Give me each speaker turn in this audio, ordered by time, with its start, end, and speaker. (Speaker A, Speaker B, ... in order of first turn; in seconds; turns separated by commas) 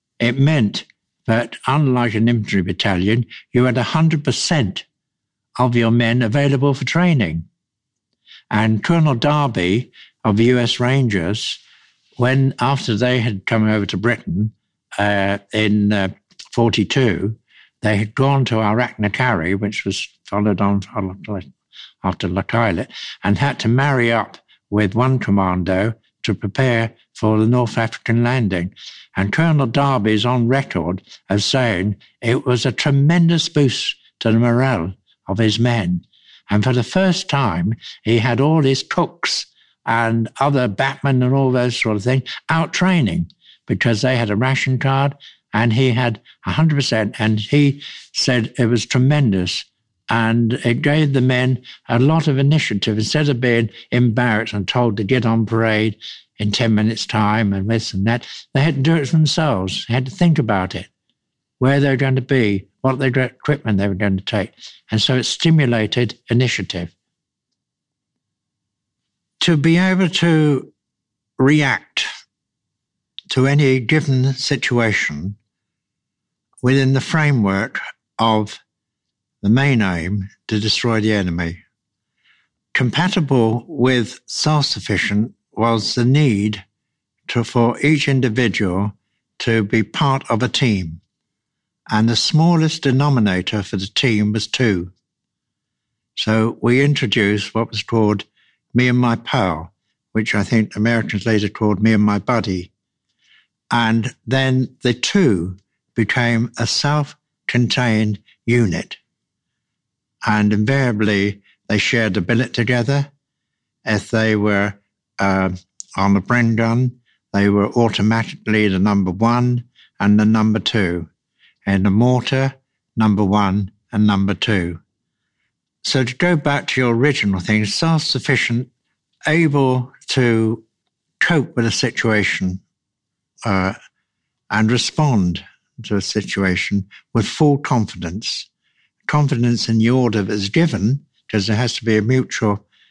Speaker A: 0.2-4.8, Speaker A: 5.6-7.5, Speaker A: 8.5-11.6, Speaker A: 12.2-21.5, Speaker A: 22.0-60.9, Speaker A: 61.6-66.9, Speaker A: 69.4-70.7, Speaker A: 71.4-72.1, Speaker A: 73.3-75.4, Speaker A: 76.6-78.6, Speaker A: 79.4-81.6, Speaker A: 82.7-86.6, Speaker A: 87.3-91.0, Speaker A: 91.9-94.9, Speaker A: 96.2-102.7, Speaker A: 103.7-109.0, Speaker A: 110.2-113.1, Speaker A: 113.8-121.1, Speaker A: 121.6-124.8, Speaker A: 125.8-128.7, Speaker A: 129.3-130.6, Speaker A: 131.2-132.6, Speaker A: 133.4-133.7, Speaker A: 134.5-138.5, Speaker A: 139.1-142.6